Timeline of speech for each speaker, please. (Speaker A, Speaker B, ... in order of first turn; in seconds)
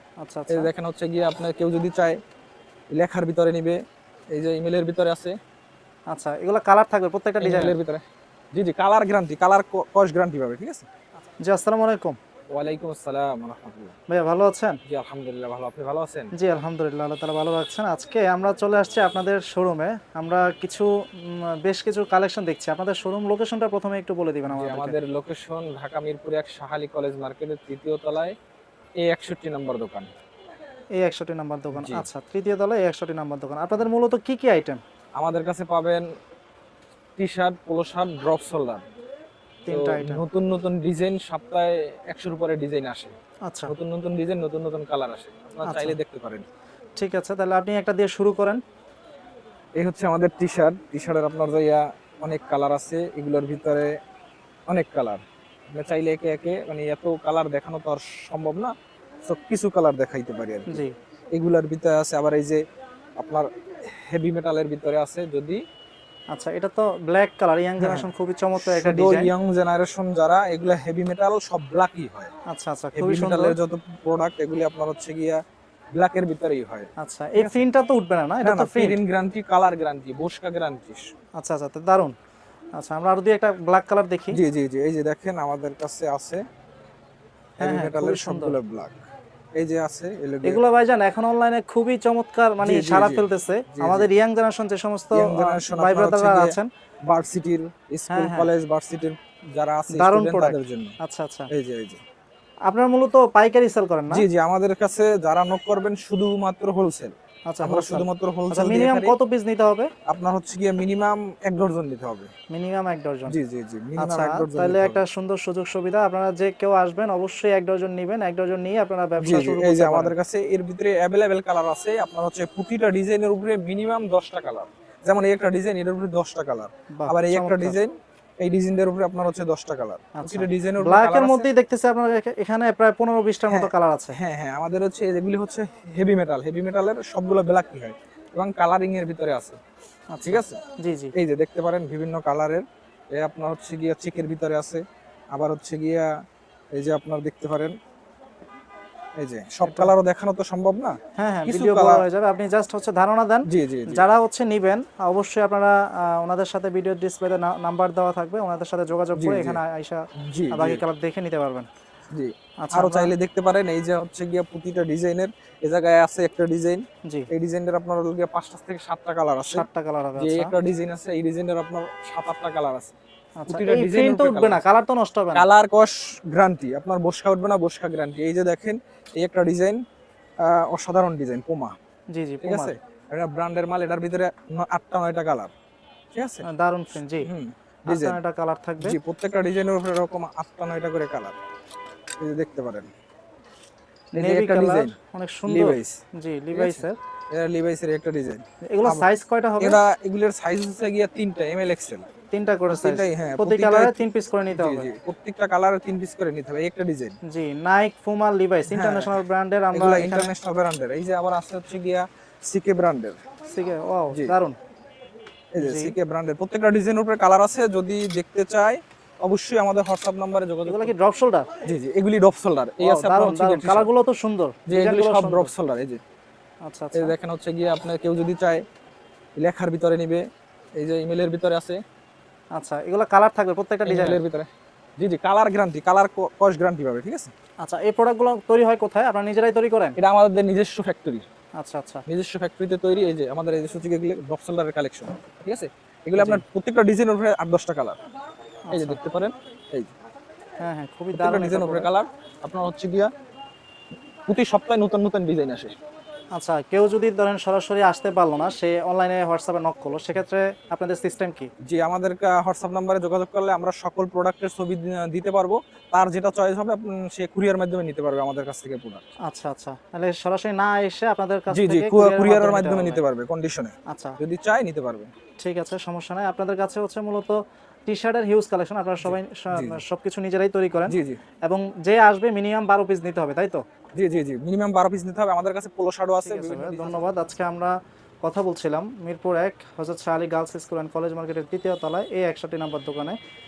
Speaker A: 0.2-0.7, 6.1-7.8, 11.4-12.2, 14.1-14.8, 16.3-24.9, 31.0-34.8, 39.7-40.2, 43.5-43.7, 45.6-46.0, 47.0-48.6, 60.7-60.9, 66.3-69.3, 72.5-73.6, 77.0-79.0, 81.4-82.1, 82.8-84.4, 87.6-88.6, 90.4-96.7, 98.1-98.5, 99.9-101.5, 102.7-104.2, 107.5-109.9, 112.5-113.3, 114.0-120.1, 126.9-127.8, 130.2-134.2, 140.1-141.1, 149.6-149.9, 151.2-161.7, 162.6-163.1, 169.5-170.5, 173.4-175.5, 182.1-182.8, 186.5-187.3, 187.9-189.0, 194.2-197.0, 198.7-199.8, 202.3-204.9, 207.2-210.3, 213.5-214.5, 215.6-215.9, 220.7-221.5, 222.8-225.5, 226.7-227.1, 232.5-234.2, 237.6-240.0, 241.6-242.0, 246.2-246.4, 248.7-249.0, 250.6-251.9, 256.3-261.5, 269.3-273.0, 273.9-274.2, 275.4-283.6, 286.2-293.2
Speaker B: 0.5-2.2, 2.9-5.4, 7.4-10.9, 12.5-13.9, 14.9-16.3, 24.5-28.4, 29.0-30.1, 31.7-32.1, 35.1-36.0, 37.2-38.8, 39.7-43.1, 43.7-46.5, 49.8-53.9, 54.7-58.7, 59.2-60.8, 61.3-62.6, 63.2-65.6, 67.8-68.1, 68.6-72.3, 73.0-75.4, 76.0-77.6, 78.4-81.1, 84.3-86.4, 87.6-89.0, 89.6-90.6, 92.6-94.1, 95.1-96.6, 97.1-101.0, 101.5-102.0, 104.1-109.2, 110.1-112.3, 113.3-115.0, 119.2-131.5, 133.5-139.6, 140.2-140.6, 141.1-146.1, 146.7-147.7, 149.2-152.0, 153.5-154.0, 159.2-159.6, 160.2-160.8, 162.1-169.7, 170.2-172.9, 173.5-174.6, 175.3-179.8, 180.4-181.7, 182.4-185.5, 186.1-186.4, 187.2-188.2, 188.8-191.3, 192.2-192.9, 194.1-194.9, 195.5-196.0, 196.5-199.1, 199.6-202.1, 202.7-207.2, 208.7-209.2, 209.7-213.2, 215.5-220.9, 221.6-223.9, 224.7-226.0, 226.9-228.6, 229.4-230.2, 230.8-231.8, 233.8-237.3, 240.0-241.3, 242.1-248.0, 248.7-249.9, 251.1-253.1, 254.3-255.8, 261.6-269.1, 271.5-275.1, 279.0-279.8, 280.9-281.2, 283.9-287.3